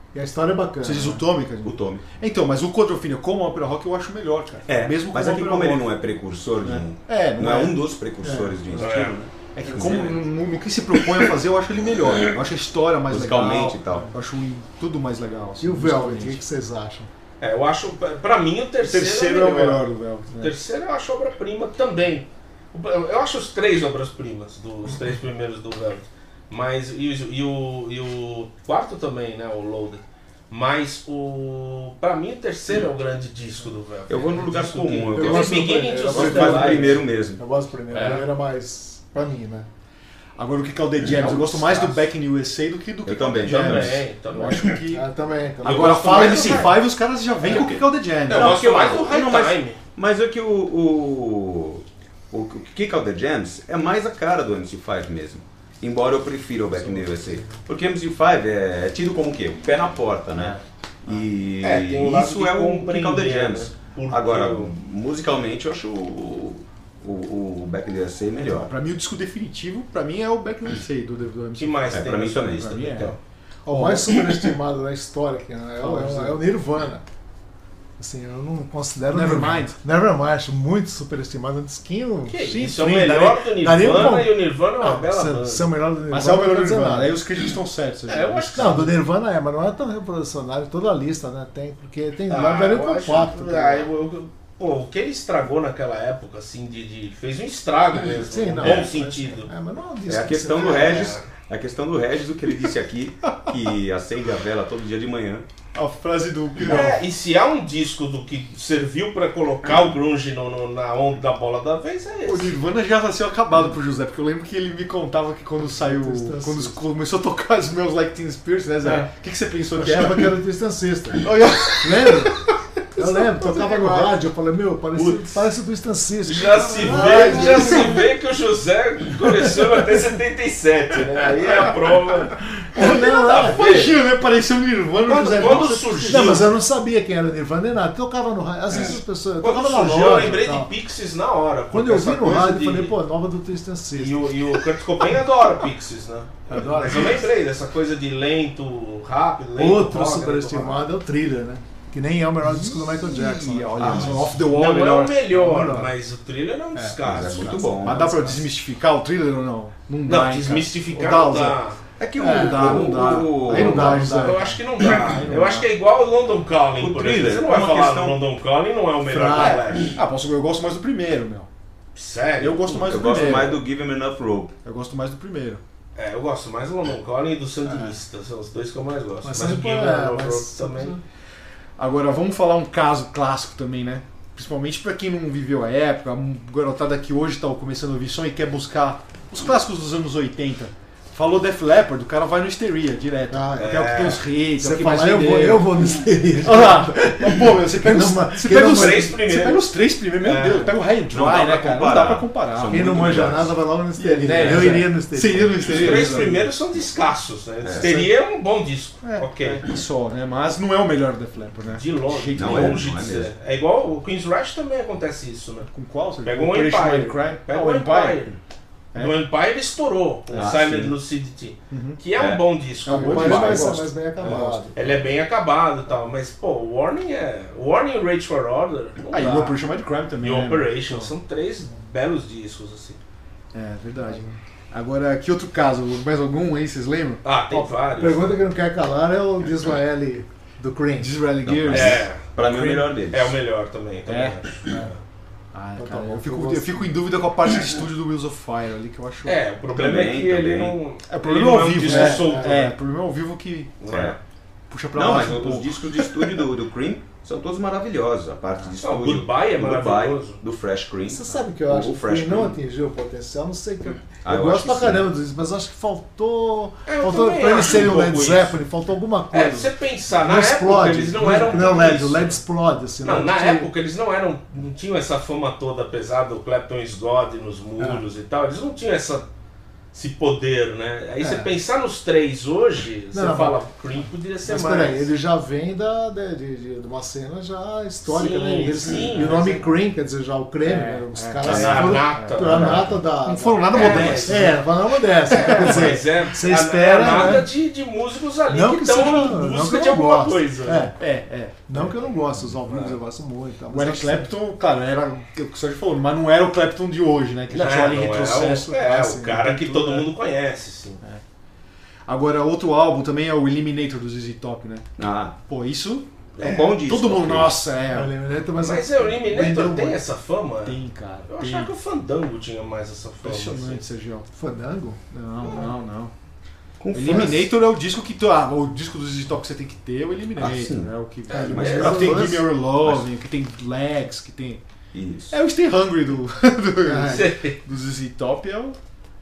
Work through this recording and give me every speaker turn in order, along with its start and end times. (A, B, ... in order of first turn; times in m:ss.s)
0:00.1-0:01.2 A
0:00.8-0:05.9 B
0:01.6-0:02.0 C
0:04.7-0:10.2 C
0:06.6-0:07.8 B
0:08.2-0:08.8 A
0:08.7-0:09.2 D
0:09.5-0:16.4 B
0:13.1-0:14.1 C
0:15.6-0:17.1 A
0:17.4-0:19.8 D
0:18.8-0:20.5 B
0:20.4-0:37.0 D
0:34.1-0:37.4 C
0:35.1-0:39.7 A
0:37.9-0:38.2 B
0:40.4-0:45.0 B
0:41.2-0:42.0 C
0:43.0-0:44.0 C
0:43.4-0:44.8 D
0:44.9-0:46.6 A
0:45.6-0:46.8 D
0:45.6-0:49.0 B
0:47.4-0:47.8 D
0:47.4-0:47.8 C
0:48.3-0:49.8 D
0:48.3-1:08.7 C
0:56.8-0:57.4 B
1:00.4-1:01.2 B
1:01.6-1:04.7 D
1:08.4-1:13.1 B
1:11.6-1:13.2 D
1:11.9-1:13.0 C
1:13.6-1:17.0 A
1:13.6-1:14.2 B
1:15.8-1:16.4 B
1:18.0-1:27.2 A
1:19.1-1:19.8 B
1:22.3-1:25.7 D
1:26.1-1:29.0 B
1:28.1-1:28.9 D
1:28.6-1:33.9 A
1:32.3-1:39.5 D
1:38.2-1:41.2 A
1:40.1-1:45.4 C
1:40.6-1:41.3 D
1:45.7-1:47.0 B
1:46.6-1:52.5 D
1:52.2-2:00.3 B
1:55.6-1:56.8 A
1:59.7-2:01.2 A
2:01.2-2:02.4 B
2:01.8-2:02.4 A
2:02.9-2:07.9 A
2:03.0-2:04.1 B
2:04.9-2:05.3 D
2:06.2-2:14.0 D
2:06.8-2:08.0 B
2:11.4-2:12.0 B
2:12.6-2:13.7 A
2:13.4-2:16.5 B
2:15.0-2:16.5 D
2:16.1-2:20.7 A
2:19.4-2:23.0 D
2:21.7-2:24.3 A
2:24.0-2:30.8 D
2:26.5-2:27.3 A
2:29.6-2:34.3 A
2:32.4-2:35.2 B
2:33.8-2:34.2 C
2:34.4-2:37.7 D
2:35.3-2:35.9 A
2:36.7-2:38.4 A
2:37.0-2:38.1 C
2:37.8-2:41.6 B
2:40.1-2:41.8 D
2:42.0-2:44.2 C
2:42.2-2:45.6 A
2:42.2-2:44.6 B
2:44.1-2:50.0 D
2:46.8-2:48.2 C
2:49.1-2:49.8 A
2:49.3-2:51.5 B
2:51.9-2:53.5 D
2:52.4-2:53.6 B
2:52.8-2:54.5 C
2:54.6-2:55.6 B
2:56.0-3:00.9 D
2:57.6-2:57.9 A
2:59.2-3:01.0 A
3:01.8-3:26.5 B
3:13.3-3:19.2 A
3:13.6-3:14.2 D
3:18.5-3:19.7 D
3:20.2-3:20.8 D
3:21.1-3:23.6 C
3:22.7-3:26.2 A
3:24.3-3:24.8 D
3:25.7-3:29.6 D
3:27.6-3:28.0 C
3:27.8-3:28.1 A
3:29.0-3:32.9 B
3:31.7-3:35.7 D
3:32.3-3:33.3 C
3:35.7-3:38.3 B
3:36.2-3:38.4 D
3:38.9-3:49.6 D
3:40.3-3:40.9 C
3:40.3-3:40.7 B
3:41.7-3:42.0 B
3:42.1-3:42.4 C
3:42.8-3:44.8 A
3:42.8-3:44.9 B
3:43.1-3:43.7 C
3:49.1-3:51.1 B
3:50.2-3:53.0 D
3:53.5-3:57.2 B
3:54.0-3:54.4 A
3:57.2-3:58.4 D
3:57.5-4:01.2 A
4:01.0-4:02.8 B
4:01.4-4:03.4 C
4:01.7-4:05.0 D
4:04.0-4:04.4 B
4:05.5-4:09.4 B
4:05.8-4:06.9 A
4:09.2-4:12.7 D
4:09.7-4:10.8 C
4:11.1-4:13.8 B
4:11.8-4:12.6 A
4:13.8-4:14.2 D
4:13.9-4:14.2 C
4:14.7-4:16.4 B
4:14.9-4:22.6 C
4:18.8-4:20.4 D
4:21.1-4:33.7 A
4:24.2-4:25.1 C
4:26.9-4:28.6 D
4:29.3-4:32.4 D
4:31.2-4:31.6 B
4:33.0-4:39.3 D
4:37.8-4:38.0 A
4:39.9-4:45.1 D
4:41.2-4:41.5 A
4:43.1-4:43.6 A
4:44.4-4:57.5 A
4:48.0-4:49.6 D
4:49.2-4:49.5 B
4:50.6-4:54.6 B
4:51.4-4:52.9 D
4:51.5-4:52.0 C
4:52.5-4:52.9 C
4:53.7-4:54.6 D
4:55.3-5:00.9 D
4:55.3-4:55.9 B
4:57.0-4:57.4 B
4:58.5-5:00.9 A
5:01.0-5:02.0 B
5:01.7-5:04.3 A
5:02.7-5:03.0 D
5:03.7-5:08.8 B
5:07.5-5:11.0 D
5:08.8-5:09.7 A
5:09.4-5:10.0 B
5:12.0-5:14.8 B
5:15.0-5:15.3 C
5:15.5-5:16.1 B
5:16.4-5:16.7 D
5:16.4-5:17.6 C
5:16.8-5:18.1 B
5:17.9-5:20.0 A
5:18.6-5:23.8 D
5:20.6-5:21.7 B
5:23.2-5:24.3 B
5:24.3-5:25.0 A
5:25.1-5:26.1 B
5:26.8-5:27.5 C
5:26.9-5:34.6 B
5:30.4-5:33.1 C
5:31.3-5:32.3 D
5:31.3-5:32.2 A
5:34.9-5:35.4 C
5:35.3-5:38.8 B
5:36.8-5:37.3 A
5:37.1-5:37.6 D